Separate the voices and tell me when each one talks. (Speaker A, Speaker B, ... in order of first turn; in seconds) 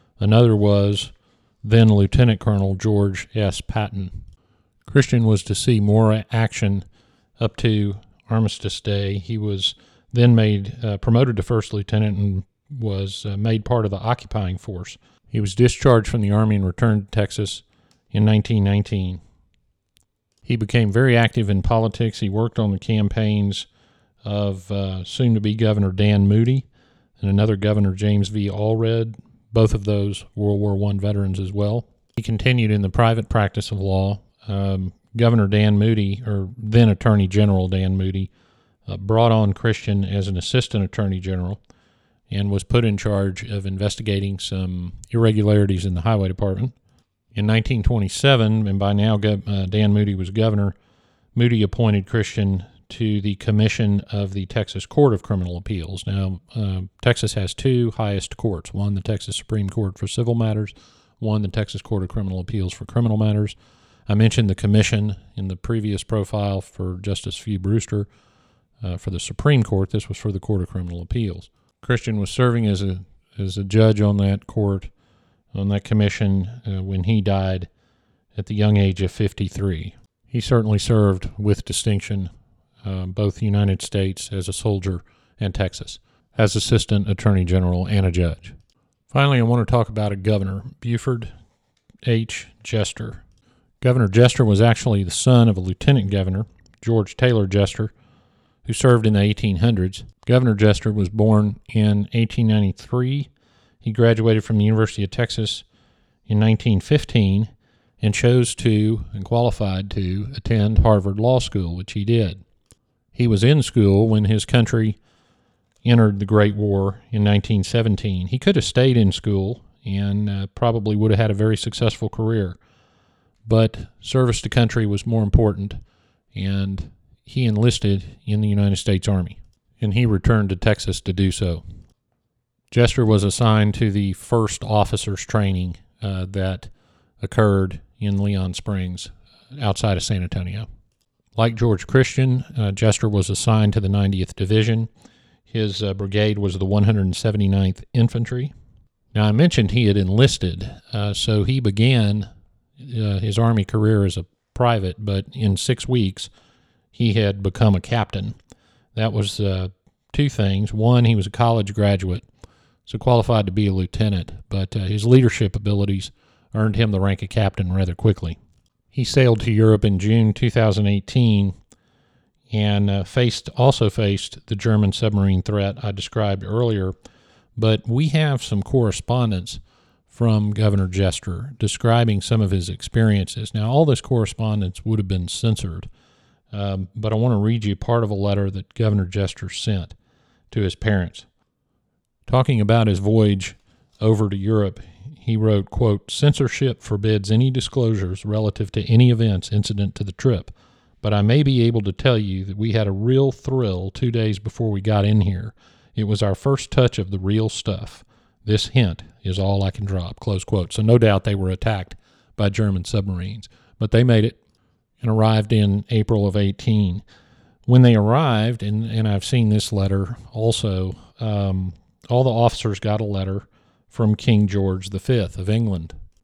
Speaker A: 0.2-4.2, 4.8-6.9, 7.4-19.2, 20.4-23.7, 24.2-26.7, 27.2-38.3, 38.9-41.6, 42.3-46.8, 47.3-50.8, 51.4-68.1, 68.8-74.9, 75.5-77.7, 78.3-82.3, 82.8-88.6, 89.1-91.3, 92.0-93.2, 93.8-97.9, 98.6-103.3, 103.8-105.7, 106.3-112.4, 113.1-115.0, 115.8-122.6, 123.5-125.8, 126.3-131.6, 132.7-136.7, 137.2-140.7, 141.4-144.9, 145.5-148.5, 149.1-152.3, 152.8-156.3, 156.9-158.4, 158.9-162.2, 162.9-168.4, 168.9-171.6, 172.5-176.9, 177.6-185.9, 186.5-189.9, 190.5-191.3, 192.3-214.4, 215.0-217.0, 217.7-226.0